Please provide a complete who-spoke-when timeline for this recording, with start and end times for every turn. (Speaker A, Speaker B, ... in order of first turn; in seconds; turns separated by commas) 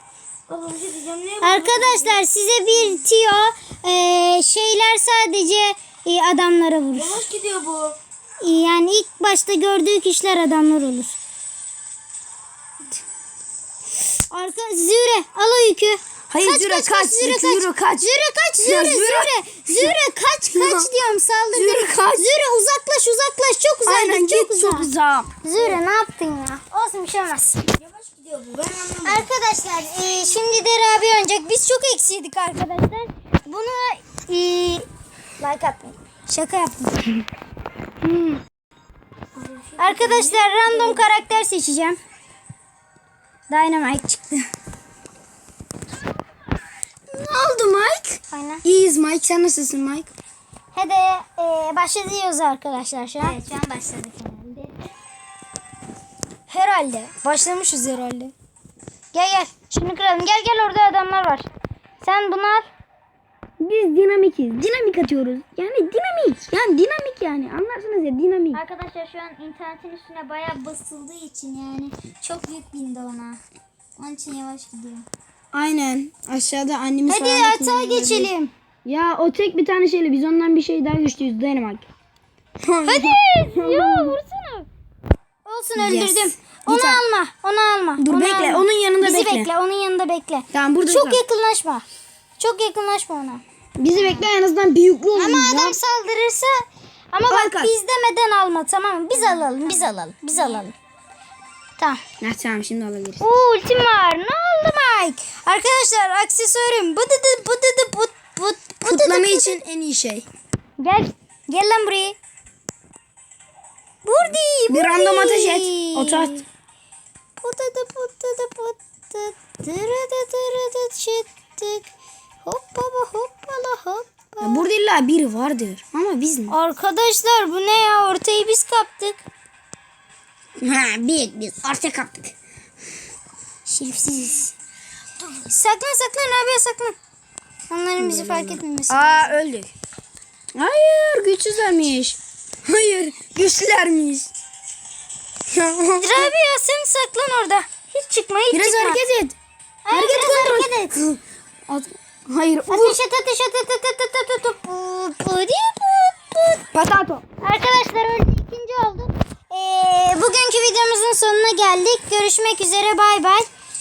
Speaker A: 0.5-2.2, Speaker B: 1.4-7.2, Speaker A: 6.9-8.0, Speaker B: 8.4-11.2, Speaker B: 14.3-24.9, Speaker A: 16.3-18.1, Speaker A: 18.6-20.0, Speaker A: 20.5-20.9, Speaker A: 21.5-22.2, Speaker A: 23.9-25.8, Speaker B: 25.4-27.6, Speaker A: 27.8-29.3, Speaker B: 29.1-34.9, Speaker B: 35.4-37.3, Speaker B: 38.0-38.4, Speaker A: 39.4-41.2, Speaker B: 39.8-42.0, Speaker B: 43.5-44.5, Speaker A: 47.1-50.1, Speaker B: 48.3-48.6, Speaker B: 50.8-53.4, Speaker C: 53.2-54.8, Speaker B: 57.1-58.3, Speaker B: 59.1-61.5, Speaker B: 62.0-62.7, Speaker A: 63.6-68.6, Speaker C: 68.5-73.4, Speaker C: 74.0-75.1, Speaker A: 75.5-78.3, Speaker B: 77.1-78.5, Speaker A: 78.8-81.9, Speaker A: 82.6-84.2, Speaker B: 82.9-84.7, Speaker B: 85.5-91.9, Speaker A: 85.8-87.0, Speaker A: 88.0-89.5, Speaker A: 90.5-91.2, Speaker B: 92.4-93.4, Speaker A: 93.8-95.8, Speaker B: 94.0-94.2, Speaker B: 95.1-100.7, Speaker A: 97.3-97.7, Speaker C: 99.2-100.6, Speaker A: 102.2-103.2, Speaker B: 103.2-109.6, Speaker A: 108.8-110.3, Speaker B: 110.8-112.2, Speaker B: 114.0-116.2, Speaker A: 114.7-116.4, Speaker B: 117.4-121.9, Speaker B: 122.5-124.5, Speaker A: 124.4-126.6, Speaker B: 126.6-129.2, Speaker A: 130.6-132.3, Speaker B: 133.7-134.5, Speaker B: 135.5-137.0, Speaker B: 137.7-139.3, Speaker A: 138.0-139.7, Speaker A: 140.6-144.3, Speaker A: 145.5-146.3, Speaker B: 146.0-149.0, Speaker A: 148.5-149.4, Speaker B: 149.9-150.9, Speaker A: 149.9-153.0, Speaker B: 152.7-156.6, Speaker A: 156.7-157.2, Speaker B: 157.4-163.5